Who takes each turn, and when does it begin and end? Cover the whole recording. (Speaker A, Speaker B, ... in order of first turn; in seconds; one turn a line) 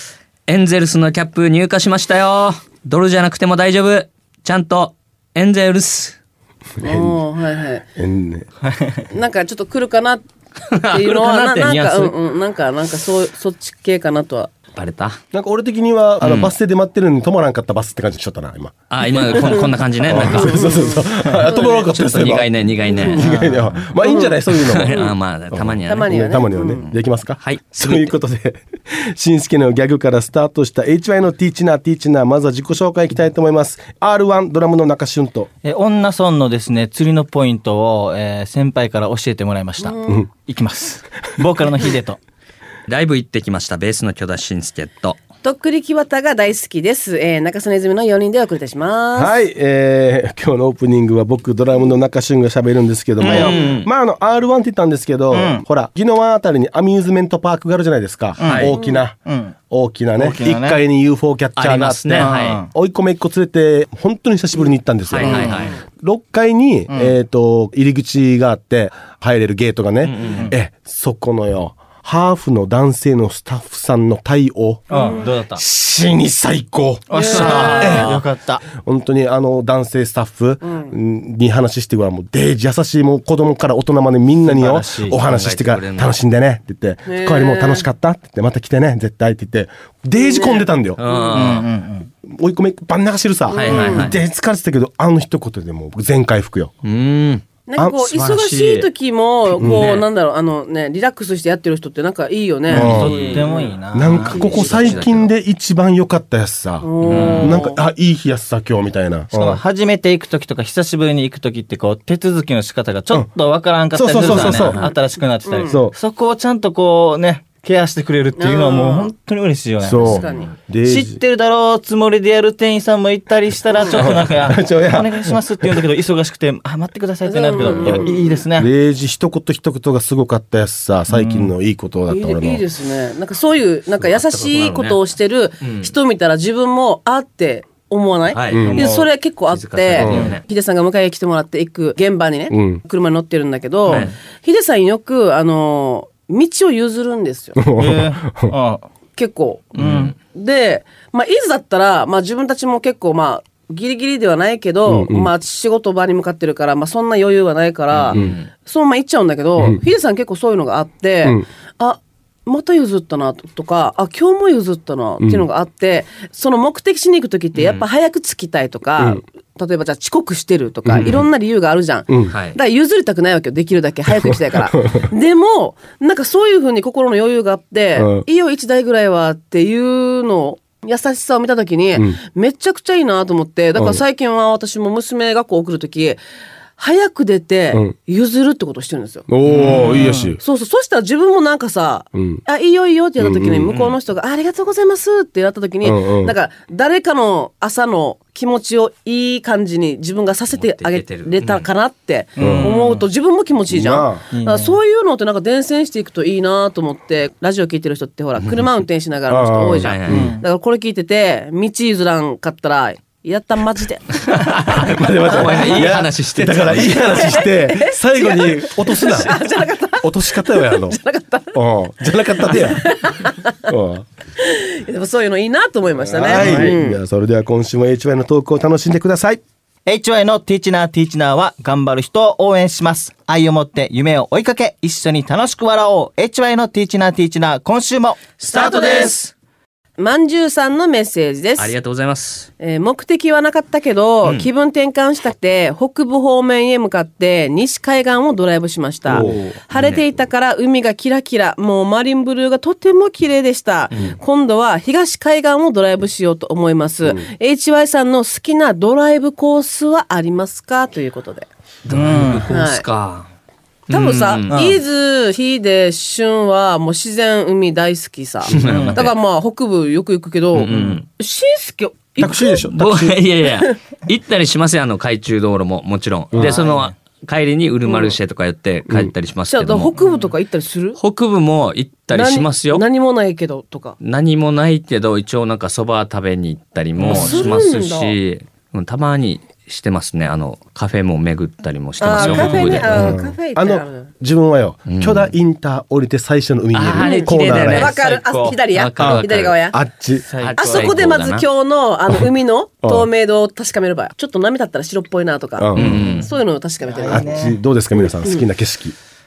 Speaker A: 0.5-6.2
Speaker B: 6.8-7.8
Speaker C: 6.8-7.2
Speaker C: 8.0-8.5
Speaker D: 8.7-9.0
Speaker B: 9.1-10.2
Speaker A: 10.7-12.1
Speaker B: 10.9-14.5
Speaker A: 14.7-15.2
Speaker C: 15.3-25.0
Speaker A: 16.2-16.5
Speaker A: 18.9-20.8
Speaker B: 19.2-22.0
Speaker A: 21.7-23.2
Speaker B: 22.8-23.4
Speaker D: 23.1-23.9
Speaker B: 24.0-25.1
Speaker A: 24.5-26.1
Speaker C: 25.5-35.5
Speaker B: 25.9-26.8
Speaker A: 26.9-28.1
Speaker D: 35.6-42.2
Speaker B: 39.8-40.2
Speaker A: 42.9-45.2
Speaker B: 45.4-49.4
Speaker C: 49.1-91.0
Speaker A: 53.2-53.9
Speaker D: 53.2-53.6
Speaker D: 55.3-55.6
Speaker D: 58.4-59.5
Speaker A: 58.4-58.7
Speaker B: 58.7-59.0
Speaker D: 60.1-60.8
Speaker A: 61.6-62.6
Speaker D: 62.2-62.7
Speaker A: 65.1-65.8
Speaker B: 65.2-65.8
Speaker D: 66.9-67.1
Speaker A: 70.0-70.5
Speaker D: 70.3-70.5
Speaker D: 74.9-75.6
Speaker B: 74.9-75.3
Speaker D: 77.1-78.6
Speaker B: 77.1-78.0
Speaker A: 77.3-78.2
Speaker B: 80.6-80.9
Speaker D: 84.4-85.2
Speaker A: 85.2-86.2
Speaker B: 87.0-87.8
Speaker B: 90.1-91.5
Speaker A: 91.0-91.7
Speaker D: 91.3-92.1
Speaker C: 92.3-96.7
Speaker B: 93.5-94.1
Speaker A: 93.5-94.2
Speaker A: 96.8-97.5
Speaker B: 97.7-103.8
Speaker C: 97.8-98.0
Speaker A: 98.0-98.9
Speaker A: 99.5-100.1
Speaker C: 99.6-99.9
Speaker A: 102.7-103.5
Speaker C: 102.7-109.6
Speaker D: 102.7-105.2
Speaker B: 104.3-104.8
Speaker A: 104.3-105.3
Speaker B: 106.8-107.8
Speaker D: 107.1-107.7
Speaker D: 109.3-120.2
Speaker C: 113.9-114.9
Speaker B: 114.3-114.9
Speaker B: 115.4-115.8
Speaker C: 115.7-115.9
Speaker B: 118.3-119.1
Speaker C: 119.8-121.2
Speaker B: 120.0-120.5
Speaker D: 120.8-128.7
Speaker B: 123.7-124.0
Speaker C: 123.9-125.8
Speaker B: 127.2-128.4
Speaker C: 127.7-132.6
Speaker D: 131.1-131.5
Speaker B: 132.1-147.6
Speaker A: 134.0-135.0
Speaker A: 135.6-135.9
Speaker A: 138.3-138.7
Speaker C: 138.5-138.8
Speaker D: 138.6-139.1
Speaker A: 139.5-140.4
Speaker C: 140.0-140.3
Speaker D: 140.0-140.3
Speaker C: 142.5-142.8
Speaker D: 143.9-144.1
Speaker A: 143.9-144.1
Speaker C: 147.6-148.5
Speaker D: 147.8-148.8
Speaker B: 149.2-186.2
Speaker A: 149.7-150.1
Speaker D: 149.8-150.1
Speaker C: 154.8-155.3
Speaker A: 157.9-158.5
Speaker C: 165.2-165.4
Speaker A: 167.5-167.8
Speaker A: 170.9-171.2
Speaker C: 170.9-171.2
Speaker C: 172.1-172.3
Speaker A: 172.3-172.6
Speaker C: 177.9-178.2
Speaker C: 183.7-184.0
Speaker B: 186.8-189.3
Speaker C: 189.3-190.4
Speaker D: 189.4-190.3
Speaker B: 190.4-214.4
Speaker C: 192.1-192.4
Speaker C: 193.2-193.7
Speaker A: 193.7-194.0
Speaker C: 195.8-196.3
Speaker A: 200.5-201.7
Speaker D: 202.4-203.0
Speaker C: 202.4-202.7
Speaker C: 203.7-204.3
Speaker D: 204.3-204.8
Speaker A: 208.4-208.7
Speaker C: 209.3-210.3
Speaker A: 209.8-210.2
Speaker D: 210.1-210.4
Speaker A: 214.3-217.3
Speaker C: 214.7-219.4
Speaker B: 215.3-216.0
Speaker B: 216.9-221.6
Speaker C: 220.0-221.0
Speaker C: 221.5-223.0
Speaker B: 222.5-223.5
Speaker C: 223.7-224.1
Speaker B: 224.4-227.0
Speaker C: 226.0-229.4
Speaker D: 226.3-226.7
Speaker D: 229.8-238.3
Speaker A: 238.4-239.3
Speaker B: 238.5-239.1
Speaker B: 240.0-241.7
Speaker A: 241.6-242.5
Speaker B: 242.6-261.5
Speaker A: 244.2-244.5
Speaker C: 249.1-249.4
Speaker D: 249.1-249.6
Speaker A: 249.7-250.1
Speaker A: 253.9-254.2
Speaker A: 261.8-263.3
Speaker D: 261.9-262.5
Speaker B: 262.5-262.8
Speaker B: 263.9-272.6
Speaker A: 263.9-264.7
Speaker D: 264.5-264.8
Speaker A: 268.4-269.1
Speaker D: 268.5-269.1
Speaker A: 270.5-271.1
Speaker D: 270.7-271.0
Speaker C: 272.2-273.2
Speaker A: 272.4-279.9
Speaker C: 276.3-276.6
Speaker D: 276.4-276.9
Speaker B: 277.9-278.2
Speaker B: 279.5-281.0
Speaker D: 279.9-280.3
Speaker A: 280.9-282.8
Speaker B: 282.1-284.0
Speaker A: 284.0-293.1
Speaker D: 287.0-287.6
Speaker B: 287.0-288.1
Speaker B: 292.0-294.1
Speaker C: 292.2-297.9
Speaker D: 292.2-292.8
Speaker A: 294.9-295.3
Speaker A: 296.7-297.9
Speaker B: 296.9-299.8
Speaker D: 297.8-298.6
Speaker A: 298.7-299.6
Speaker C: 299.0-300.3
Speaker D: 300.3-301.0
Speaker A: 300.4-301.5
Speaker B: 300.6-307.4
Speaker C: 305.6-306.1
Speaker A: 305.7-306.3
Speaker D: 305.8-306.2
Speaker D: 306.8-307.6
Speaker C: 307.1-308.9